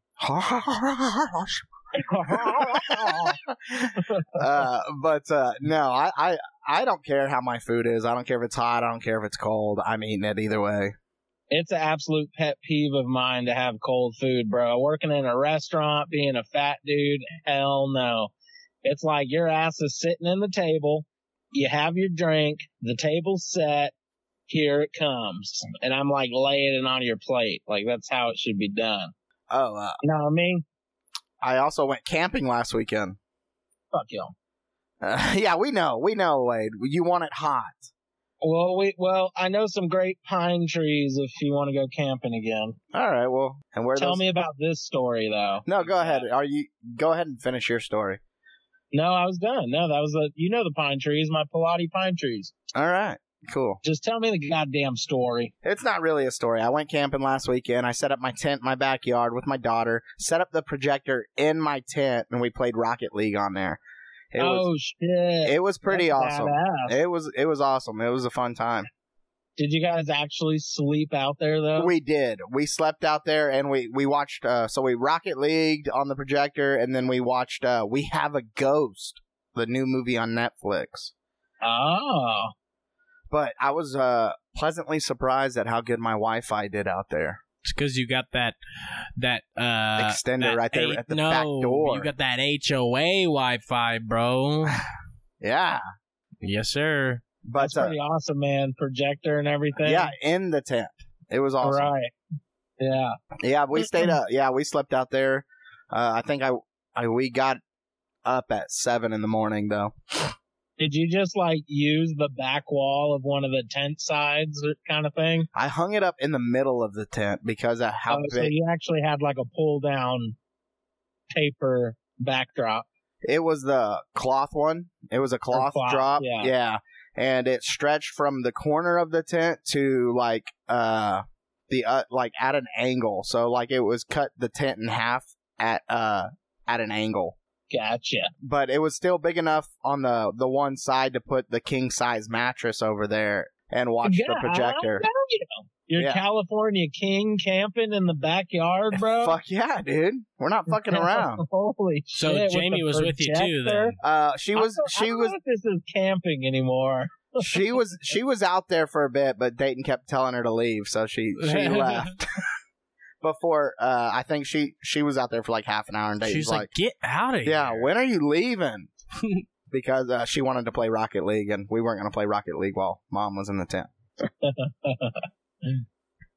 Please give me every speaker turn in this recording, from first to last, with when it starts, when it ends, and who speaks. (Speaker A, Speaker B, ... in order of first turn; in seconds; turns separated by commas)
Speaker A: 0.2-1.6, Speaker B: 1.9-3.4, Speaker A: 2.3-10.9, Speaker B: 4.0-4.3, Speaker B: 11.5-18.3, Speaker B: 18.8-23.9, Speaker B: 24.5-29.1, Speaker A: 29.5-30.0, Speaker B: 30.0-30.6, Speaker A: 31.4-33.2, Speaker B: 33.9-34.3, Speaker A: 35.0-37.9, Speaker B: 38.4-42.8, Speaker A: 42.9-44.2, Speaker B: 44.0-46.2, Speaker A: 45.6-48.2, Speaker B: 48.9-52.5, Speaker A: 52.8-53.8, Speaker B: 53.8-55.5, Speaker A: 55.6-63.8, Speaker A: 64.3-64.7, Speaker B: 64.4-67.0, Speaker A: 65.5-68.9, Speaker B: 69.6-71.9, Speaker A: 71.8-81.1, Speaker B: 81.6-82.5, Speaker A: 83.3-87.4, Speaker C: 87.6-88.6, Speaker C: 89.2-94.8, Speaker A: 90.0-92.1, Speaker A: 95.4-95.8, Speaker C: 96.4-97.2, Speaker A: 97.5-98.0, Speaker B: 97.6-100.1, Speaker A: 99.8-101.9, Speaker B: 101.6-102.1, Speaker B: 102.8-103.1, Speaker A: 103.4-107.6, Speaker A: 108.2-110.0, Speaker B: 110.8-115.5, Speaker A: 115.5-118.5, Speaker B: 118.1-120.3, Speaker B: 121.3-122.9, Speaker A: 123.2-137.4, Speaker B: 125.5-126.5, Speaker B: 137.7-138.3, Speaker A: 138.4-145.1, Speaker B: 144.0-149.4, Speaker A: 146.0-146.2, Speaker A: 149.2-151.4, Speaker B: 150.9-154.0, Speaker C: 152.1-154.0, Speaker A: 154.0-155.3, Speaker B: 154.6-157.5, Speaker A: 157.4-162.3, Speaker C: 161.4-162.1, Speaker A: 163.2-166.7, Speaker C: 166.2-167.8, Speaker A: 167.4-168.9, Speaker A: 169.7-173.9, Speaker B: 174.4-175.7